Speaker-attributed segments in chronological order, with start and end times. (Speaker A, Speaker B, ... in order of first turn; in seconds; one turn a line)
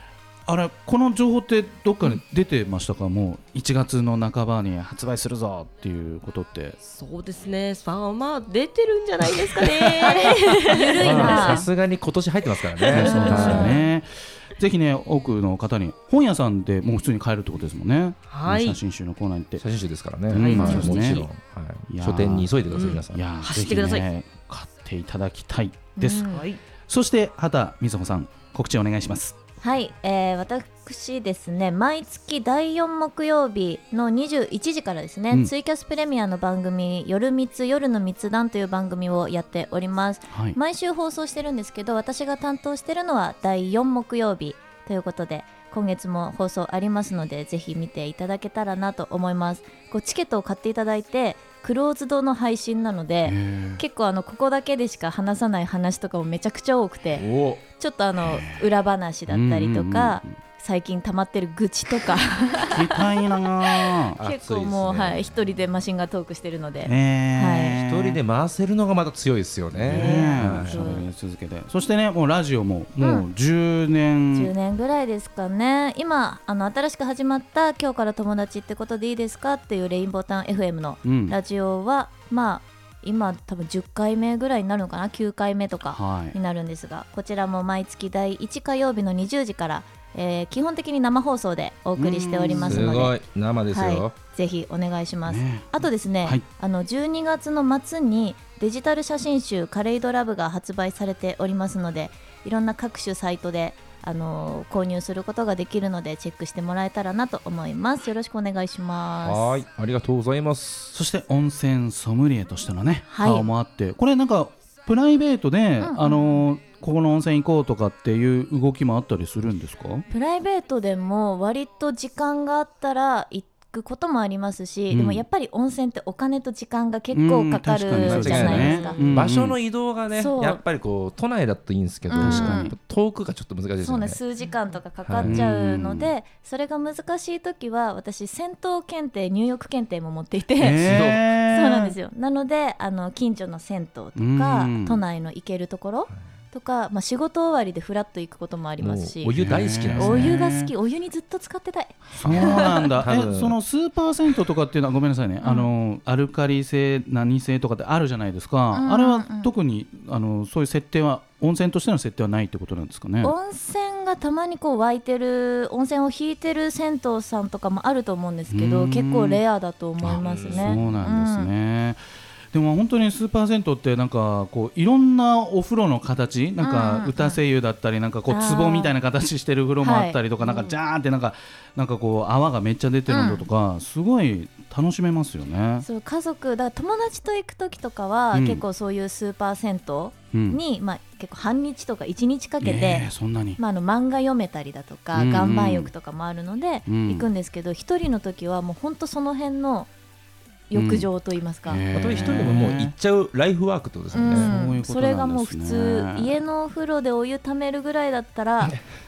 Speaker A: 0.5-6.8
Speaker B: 6.8-11.6
Speaker A: 9.6-10.2
Speaker C: 10.0-11.7
Speaker D: 11.0-13.8
Speaker A: 11.0-11.5
Speaker B: 12.8-13.8
Speaker A: 12.9-19.6
Speaker C: 13.2-13.8
Speaker B: 18.3-18.8
Speaker D: 19.6-23.2
Speaker A: 20.3-21.3
Speaker B: 20.3-21.3
Speaker A: 21.9-22.5
Speaker B: 22.7-24.1
Speaker A: 23.1-29.3
Speaker C: 26.0-26.4
Speaker B: 26.3-26.6
Speaker C: 29.6-57.3
Speaker A: 40.3-40.6
Speaker A: 53.2-53.8
Speaker D: 57.1-57.6
Speaker C: 57.8-67.8
Speaker A: 58.2-58.7
Speaker A: 59.3-60.4
Speaker A: 62.6-64.2
Speaker D: 64.2-65.4
Speaker A: 66.8-68.2
Speaker D: 67.7-71.0
Speaker A: 69.8-74.5
Speaker C: 69.9-71.1
Speaker C: 73.0-73.3
Speaker C: 74.3-93.2
Speaker A: 81.0-81.4
Speaker A: 85.9-86.4
Speaker A: 92.0-93.0
Speaker D: 92.5-94.2
Speaker C: 93.7-109.5
Speaker A: 95.3-96.4
Speaker D: 109.2-111.0
Speaker A: 110.9-120.0
Speaker C: 113.1-113.5
Speaker C: 115.8-116.2
Speaker C: 120.1-129.0
Speaker A: 124.9-125.2
Speaker A: 127.1-129.6
Speaker D: 128.0-134.2
Speaker B: 128.5-129.2
Speaker C: 130.1-130.6
Speaker C: 132.1-132.7
Speaker A: 132.2-132.7
Speaker C: 133.8-149.4
Speaker D: 135.1-135.5
Speaker A: 135.2-136.1
Speaker A: 140.6-142.0
Speaker D: 140.8-141.2
Speaker A: 144.2-145.0
Speaker D: 148.8-150.4
Speaker A: 149.3-150.7
Speaker C: 149.9-152.9
Speaker D: 152.0-153.6
Speaker A: 152.2-163.3
Speaker C: 155.4-155.7
Speaker C: 158.7-159.5
Speaker C: 163.2-171.5
Speaker A: 168.5-169.4
Speaker A: 170.0-172.0
Speaker D: 170.2-171.0
Speaker A: 172.5-185.9
Speaker C: 176.6-177.4
Speaker C: 178.3-178.9
Speaker C: 179.8-180.2
Speaker B: 180.4-180.7
Speaker C: 183.1-183.5
Speaker C: 185.8-193.1
Speaker A: 188.3-188.6
Speaker A: 190.3-190.6
Speaker A: 192.6-193.6
Speaker C: 193.6-199.9
Speaker A: 195.1-195.9
Speaker A: 196.9-197.3
Speaker C: 200.7-201.8
Speaker A: 200.7-201.1
Speaker A: 201.7-202.9
Speaker D: 201.9-204.5
Speaker C: 204.1-208.8
Speaker A: 204.3-206.3